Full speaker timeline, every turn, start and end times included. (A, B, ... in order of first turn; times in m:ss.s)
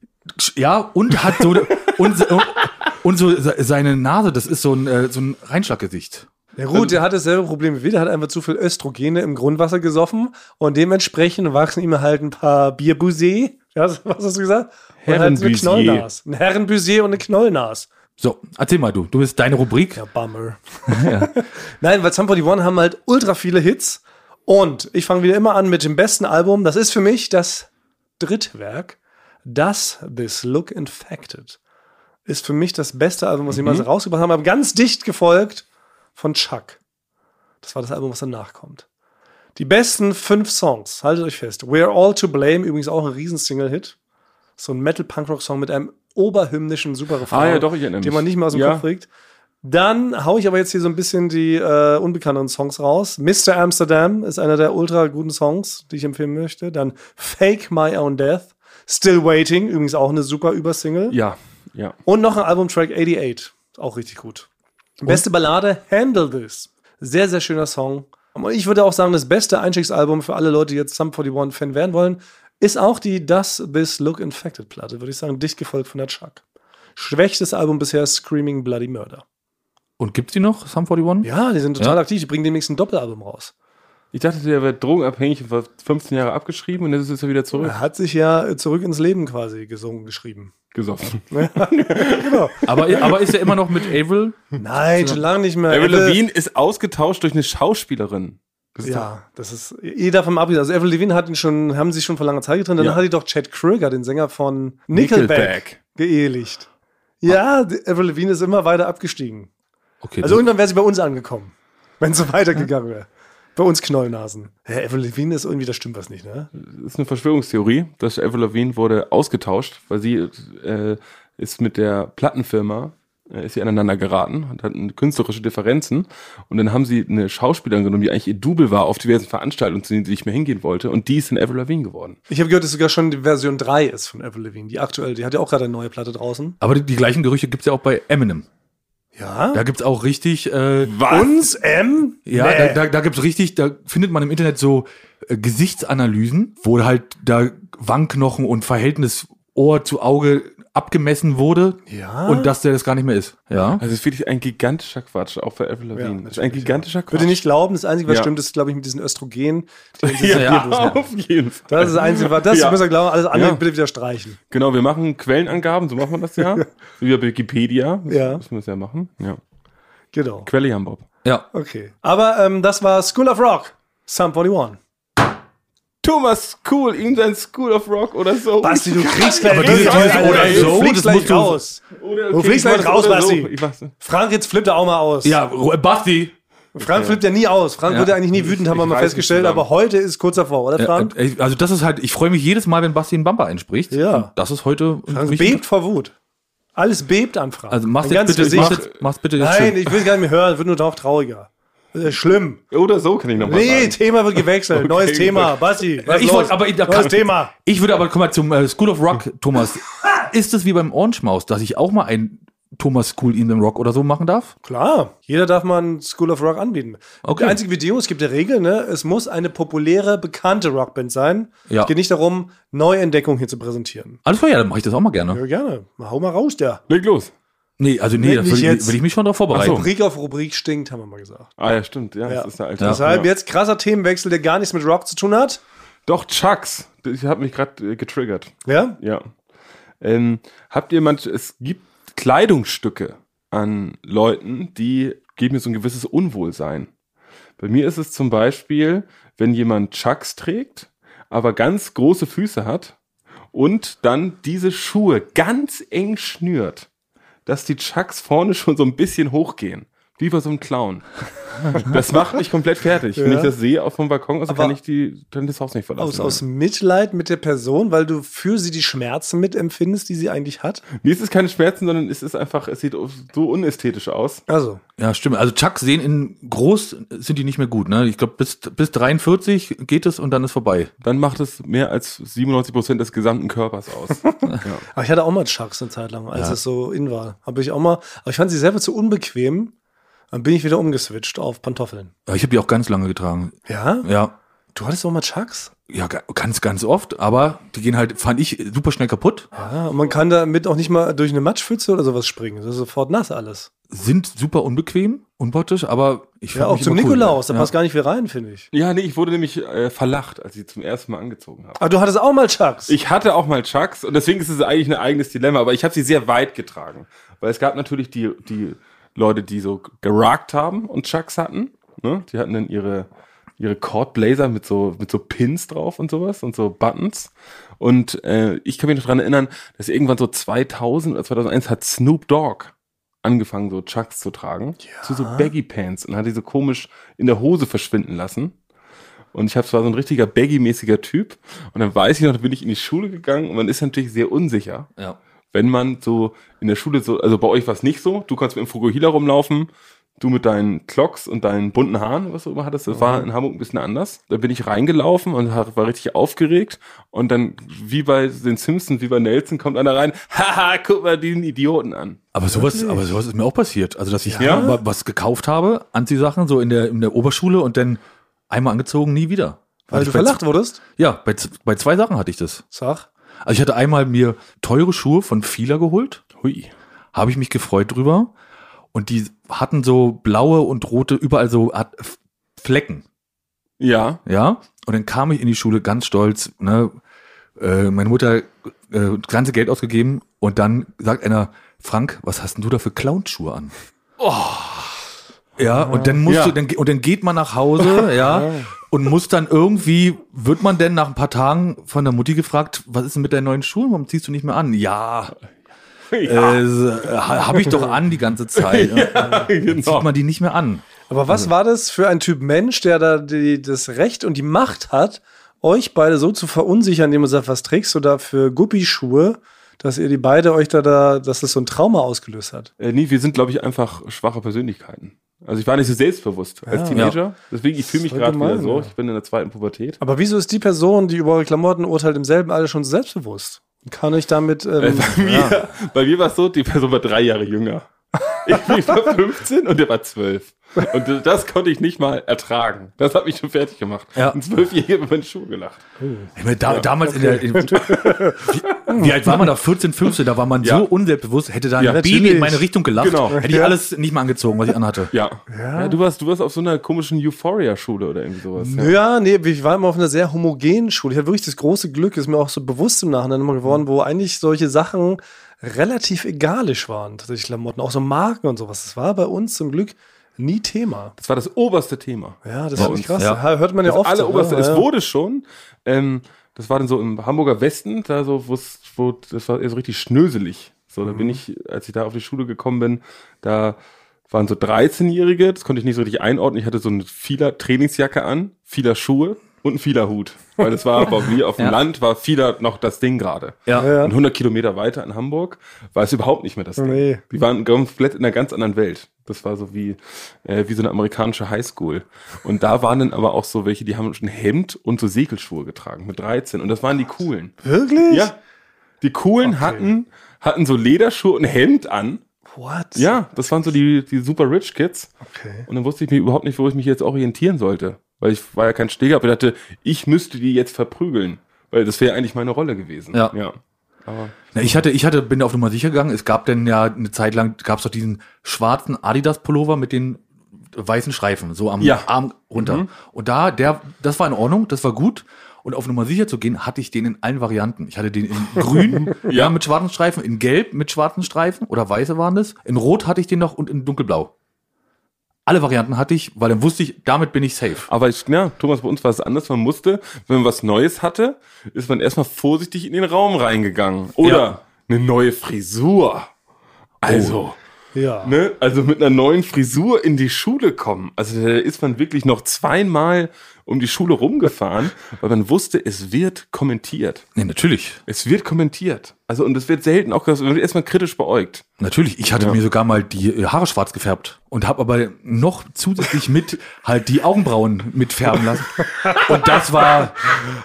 0:00.4-0:06.3 A
0:06.6-0:17.9 B
0:15.0-0:16.1 C
0:18.2-0:20.0 A
0:20.0-0:31.6 B
0:20.9-0:21.4 A
0:32.3-0:35.6 B
0:33.6-0:33.8 C
0:36.2-0:36.8 B
0:37.6-0:38.9 B
0:39.6-0:44.0 B
0:44.6-0:49.1 B
0:47.3-0:48.8 C
0:49.6-1:01.2 B
1:01.1-1:02.0 C
1:02.1-1:04.5 B
1:05.0-1:16.4 B
1:17.0-1:19.2 B
1:20.0-1:22.0 A
1:21.2-1:23.5 B
1:24.1-1:27.8 C
1:27.6-1:30.5 B
1:30.7-1:33.2 C
1:31.3-1:33.2 B
1:32.6-1:34.5 A
1:34.6-1:36.2 B
1:35.7-1:39.1 C
1:38.8-1:46.7 B
1:44.9-1:45.8 C
1:47.2-1:49.5 B
1:50.0-1:50.4 A
1:50.2-1:56.5 B
1:56.6-2:12.2 C
2:12.3-2:16.6 B
2:16.6-2:18.5 A
2:19.2-2:19.6 B
2:19.5-2:21.0 A
2:20.8-2:21.5 C
2:21.1-2:22.8 B
2:22.3-2:33.8 A
2:31.9-2:32.5 B
2:33.8-2:37.4 C
2:36.0-2:41.0 B
2:38.1-2:38.3 C
2:40.0-2:43.6 C
2:40.3-2:41.0 A
2:41.7-2:44.4 B
2:44.5-2:49.4 C
2:48.1-2:48.4 B
2:50.1-2:50.5 B
2:50.5-2:51.1 C
2:51.5-2:54.8 B
2:56.0-3:00.9 C
2:58.6-3:05.4 B
2:59.4-3:01.6 A
3:02.0-3:03.9 C
3:05.2-3:06.4 A
3:06.8-3:11.1 B
3:06.9-3:07.2 C
3:07.9-3:08.1 A
3:08.3-3:09.7 C
3:10.8-3:15.6 A
3:13.9-3:14.3 B
3:15.1-3:16.1 B
3:16.8-3:18.8 B
3:17.7-3:19.9 A
3:18.4-3:18.9 C
3:19.4-3:22.6 B
3:22.7-3:25.7 C
3:23.4-3:27.5 B
3:26.0-3:34.5 A
3:34.6-3:44.2 B
3:37.2-3:37.6 A
3:44.2-3:45.4 A
3:45.3-3:46.8 B
3:46.9-3:47.3 C
3:47.8-3:49.9 A
3:48.2-3:49.0 B
3:49.5-3:51.5 B
3:49.5-3:49.8 C
3:51.6-3:53.3 C
3:52.3-3:55.6 B
3:56.1-3:59.3 C
3:58.6-3:59.0 B
4:00.0-4:06.9 C
4:07.6-4:13.0 C
4:13.5-4:16.9 C
4:17.5-4:21.1 C
4:21.6-4:26.4 C
4:23.2-4:23.5 B
4:24.5-4:24.8 B
4:26.0-4:30.8 B
4:31.0-4:34.4 C
4:34.5-4:34.8 B
4:35.0-4:40.9 A
4:41.0-4:44.8 C
4:44.9-4:49.7 B
4:50.3-4:52.1 B
4:52.3-4:54.3 A
4:53.7-4:54.1 B
4:54.8-4:55.7 B
4:55.9-4:59.5 A
4:59.6-5:03.7 B
5:03.9-5:07.7 A
5:06.5-5:08.7 B
5:08.7-5:11.8 C
5:11.8-5:13.0 B
5:12.9-5:23.1 C
5:23.6-5:38.5 C
5:34.9-5:35.5 B
5:39.3-5:44.9 C
5:45.5-5:49.7 C
5:50.2-6:02.2 C
5:52.9-5:53.3 B
6:02.3-6:10.4 A
6:02.5-6:03.0 B
6:04.2-6:04.8 B
6:04.4-6:04.7 C
6:09.9-6:10.8 B
6:11.0-6:12.6 A
6:12.7-6:13.1 B
6:13.4-6:16.2 A
6:16.4-6:16.7 C
6:17.1-6:18.3 A
6:18.9-6:23.0 A
6:23.8-6:24.2 C
6:24.3-6:27.0 A
6:27.6-6:35.0 A
6:35.6-6:45.4 A
6:35.8-6:36.2 B
6:36.3-6:36.6 C
6:38.2-6:38.7 B
6:46.1-6:46.6 C
6:46.2-6:50.8 A
6:48.6-6:50.1 C
6:51.1-7:02.7 B
7:02.8-7:10.0 C
7:06.7-7:07.2 B
7:08.0-7:08.9 B
7:10.0-7:15.6 B
7:14.8-7:25.8 C
7:26.0-7:26.3 B
7:26.4-7:35.1 A
7:27.0-7:29.4 B
7:30.6-7:30.9 C
7:31.8-7:32.1 C
7:31.8-7:32.7 B
7:33.0-7:33.4 C
7:33.3-7:33.8 B
7:35.1-7:39.0 C
7:35.5-7:36.0 B
7:38.6-7:51.1 B
7:51.2-7:53.3 C
7:52.4-7:54.9 B
7:52.8-7:53.4 A
7:53.8-8:03.8 C
8:01.1-8:01.4 B
8:04.3-8:28.4 C
8:13.8-8:14.2 B
8:16.8-8:17.2 B
8:27.6-8:28.3 B
8:29.0-8:32.2 C
8:29.4-8:29.9 B
8:32.5-8:33.2 B
8:33.0-8:35.2 C
8:35.3-8:35.7 B
8:35.7-8:44.4 C
8:44.5-8:50.2 A
8:50.7-9:04.3 A
8:51.8-8:52.9 C
8:59.1-8:59.5 C
9:05.5-9:07.9 A
9:07.9-9:16.3 C
9:14.2-9:14.5 A
9:17.0-9:17.6 C
9:17.0-9:17.4 A
9:17.9-9:18.3 B
9:18.2-9:27.3 C
9:27.4-9:28.0 A
9:28.1-9:31.7 C
9:31.8-9:40.4 A
9:38.8-9:40.1 B